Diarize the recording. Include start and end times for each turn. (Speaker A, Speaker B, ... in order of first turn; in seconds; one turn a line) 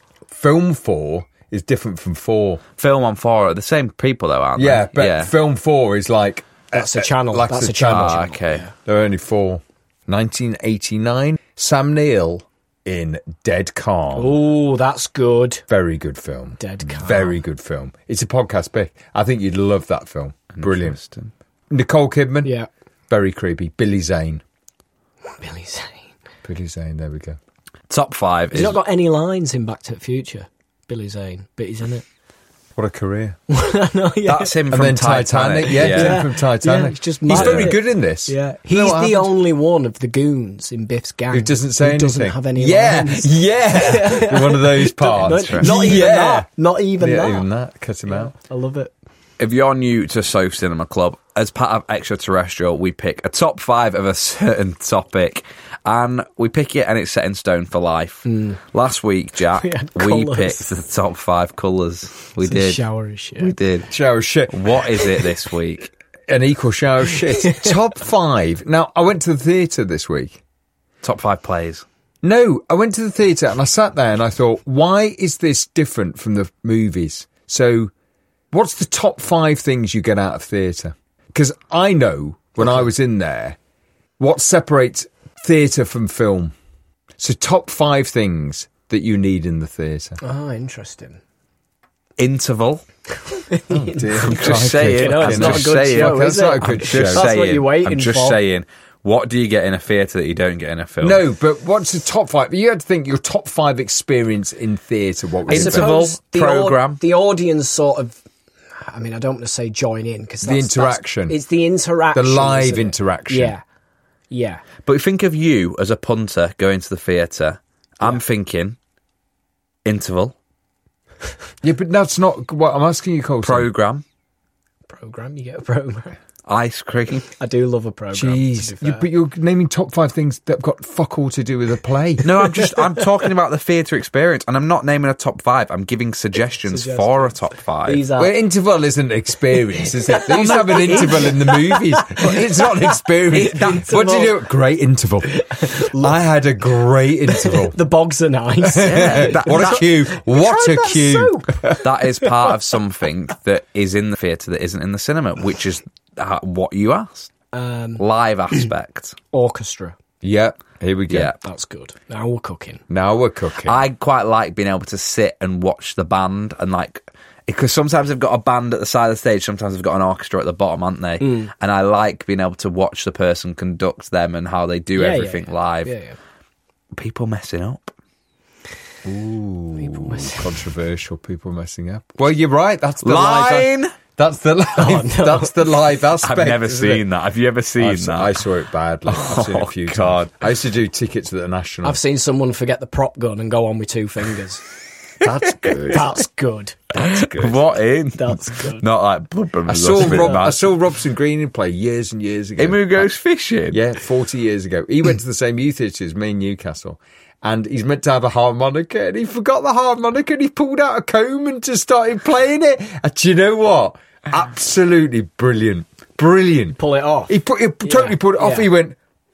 Speaker A: 0.3-2.6
Speaker B: 2.8-5.3
Speaker A: 4.6-8.2
Speaker C: 6.7-8.7
Speaker B: 7.9-8.7
Speaker A: 8.8-14.4
Speaker C: 14.1-15.6
Speaker A: 15.7-21.0
Speaker C: 16.6-17.4
Speaker B: 20.5-21.3
Speaker A: 21.7-22.5
Speaker A: 23.1-24.4
Speaker C: 25.3-26.1
Speaker A: 26.4-27.4
Speaker B: 27.9-28.8
Speaker C: 28.5-32.0
Speaker A: 32.8-33.4
Speaker C: 33.5-34.5
Speaker B: 34.2-36.2
Speaker A: 34.7-39.3
Speaker C: 35.8-47.5
Speaker B: 37.3-37.7
Speaker A: 41.3-46.5
Speaker B: 45.1-45.8
Speaker A: 47.0-48.3
Speaker C: 48.1-48.9
Speaker B: 49.4-62.8
Speaker C: 58.2-58.6
Speaker C: 59.5-60.8
Speaker C: 62.4-63.5
Speaker B: 63.4-63.9
Speaker A: 63.9-64.6
Speaker B: 64.5-65.9
Speaker A: 66.3-70.4
Speaker C: 67.4-67.7
Speaker B: 71.0-71.8
Speaker A: 72.2-77.9
Speaker A: 78.5-83.6
Speaker A: 84.2-86.5
Speaker A: 87.2-90.2
Speaker C: 90.2-91.2
Speaker B: 92.2-92.8
Speaker C: 93.3-98.4
Speaker A: 93.7-97.3
Speaker B: 94.2-101.2
Speaker A: 101.0-105.9
Speaker C: 105.5-108.2
Speaker B: 105.5-107.0
Speaker C: 108.8-113.6
Speaker A: 110.4-111.4
Speaker A: 112.1-113.5
Speaker C: 114.3-114.6
Speaker B: 114.9-118.8
Speaker B: 119.8-120.3
Speaker A: 121.6-123.7
Speaker B: 123.4-124.0
Speaker C: 124.9-126.2
Speaker B: 126.5-127.3
Speaker C: 127.4-129.1
Speaker A: 128.1-132.3
Speaker B: 132.2-138.1
Speaker C: 136.6-138.4
Speaker A: 138.2-145.3
Speaker C: 139.8-144.5
Speaker B: 140.2-141.3
Speaker B: 142.4-143.8
Speaker C: 145.2-146.2
Speaker A: 145.8-147.8
Speaker C: 147.3-151.8
Speaker A: 148.6-151.8
Speaker B: 148.8-149.8
Speaker B: 151.8-157.3
Speaker C: 157.5-158.0
Speaker B: 158.0-159.2
Speaker C: 159.3-159.9
Speaker A: 160.2-161.3
Speaker B: 161.1-161.4
Speaker C: 161.4-162.8
Speaker A: 162.9-163.8
Speaker B: 163.7-175.9
Speaker C: 171.2-171.5
Speaker C: 174.9-176.2
Speaker B: 176.9-177.9
Speaker A: 179.1-187.1
Speaker C: 179.8-180.5
Speaker B: 183.0-183.9
Speaker C: 184.8-185.8
Speaker B: 186.2-188.4
Speaker A: 187.8-192.0
Speaker B: 189.1-190.5
Speaker C: 191.8-194.6
Speaker A: 195.2-196.2
Speaker C: 195.9-197.0
Speaker B: 196.9-200.7
Speaker A: 197.0-197.6
Speaker C: 198.2-198.8
Speaker A: 199.7-203.1
Speaker C: 200.0-200.5
Speaker B: 202.6-203.8
Speaker A: 203.7-218.9
Speaker C: 216.8-218.7